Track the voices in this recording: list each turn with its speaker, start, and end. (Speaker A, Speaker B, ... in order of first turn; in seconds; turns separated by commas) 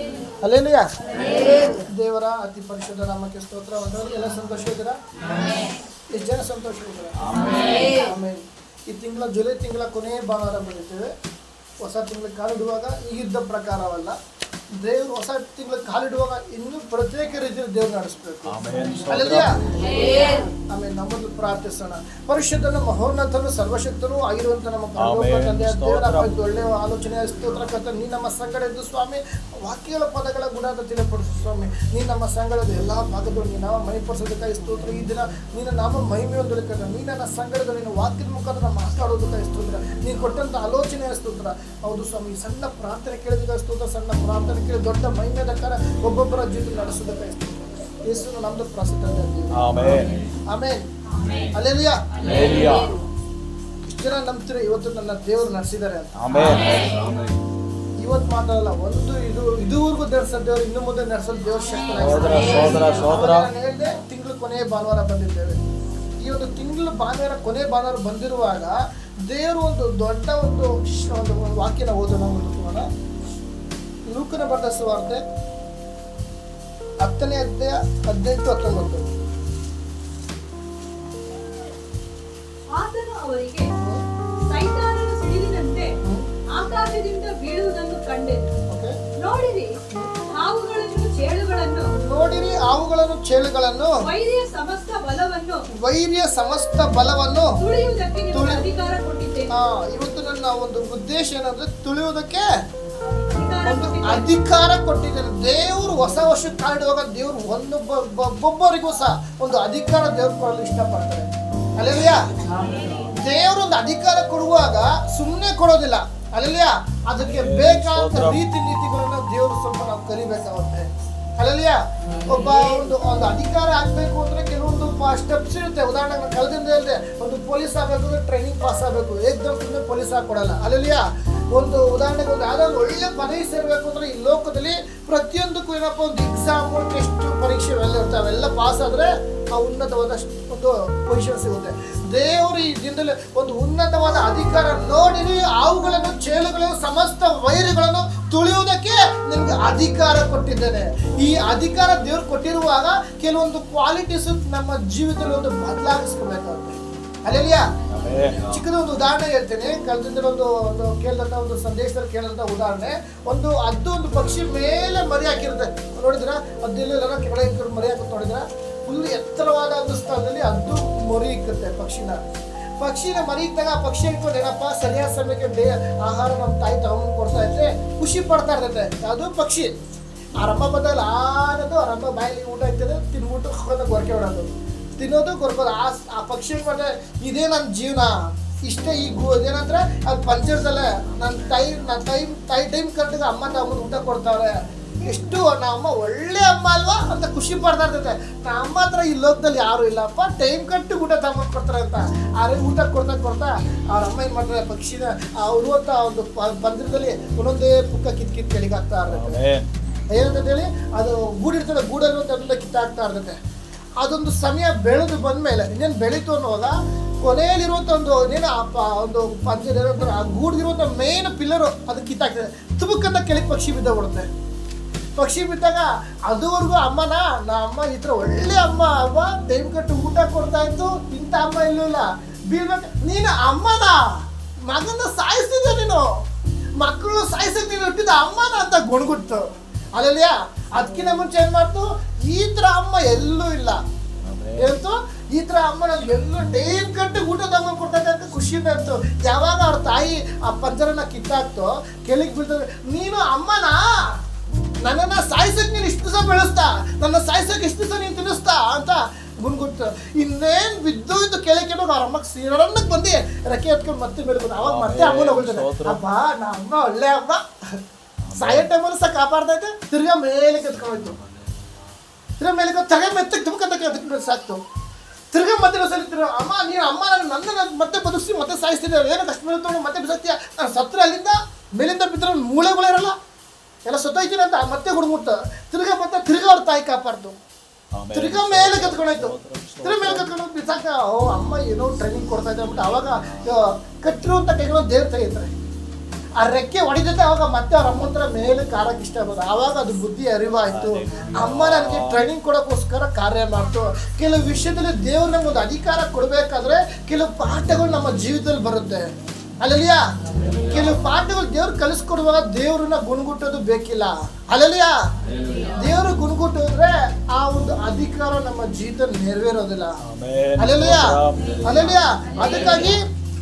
Speaker A: 0.4-0.9, Speaker A: 1.5-5.0, Speaker A: 6.1-11.1, Speaker A: 11.8-14.2, Speaker A: 14.8-18.5, Speaker B: 18.4-19.5, Speaker A: 19.1-19.5, Speaker A: 20.4-49.5, Speaker B: 25.0-26.3, Speaker B: 49.5-50.1, Speaker A: 50.5-50.9, Speaker A: 51.5-52.0, Speaker B: 52.2-52.9, Speaker A: 53.8-56.1, Speaker B: 56.2-56.9, Speaker A: 58.0-65.6, Speaker B: 61.9-63.5, Speaker A: 66.2-68.7, Speaker A: 69.3-72.9, Speaker A: 74.1-75.2, Speaker A: 77.0-79.1, Speaker C: 82.7-83.7, Speaker C: 84.5-85.9, Speaker C: 86.5-88.5, Speaker C: 89.2-89.7, Speaker C: 90.3-91.9, Speaker A: 91.9-94.0, Speaker C: 94.0-95.6, Speaker A: 95.7-97.5, Speaker C: 97.6-99.5, Speaker A: 98.3-98.6, Speaker A: 99.5-102.4, Speaker C: 103.3-104.3, Speaker A: 103.6-112.3, Speaker A: 113.2-120.9, Speaker B: 117.2-118.4, Speaker A: 121.4-157.7, Speaker B: 157.9-158.6, Speaker A: 158.4-172.2, Speaker A: 172.8-179.7, Speaker A: 180.4-194.5, Speaker A: 195.0-209.4, Speaker B: 209.1-209.7, Speaker A: 210.1-213.4, Speaker A: 214.0-224.3, Speaker A: 225.2-236.1, Speaker A: 236.8-243.8, Speaker B: 244.2-244.7, Speaker A: 244.6-254.2, Speaker A: 254.8-267.4, Speaker B: 264.6-266.0, Speaker B: 268.2-268.7, Speaker A: 268.4-271.2, Speaker B: 271.1-271.8, Speaker A: 272.4-274.6, Speaker A: 275.3-283.1, Speaker A: 283.9-287.4, Speaker B: 287.9-290.3, Speaker A: 288.1-295.5, Speaker B: 293.0-293.4, Speaker A: 296.4-309.1, Speaker B: 300.7-302.3, Speaker A: 309.6-310.0, Speaker B: 310.5-311.0, Speaker A: 310.7-315.0, Speaker B: 315.4-315.7, Speaker A: 315.7-319.9, Speaker B: 320.0-323.0, Speaker A: 320.6-323.0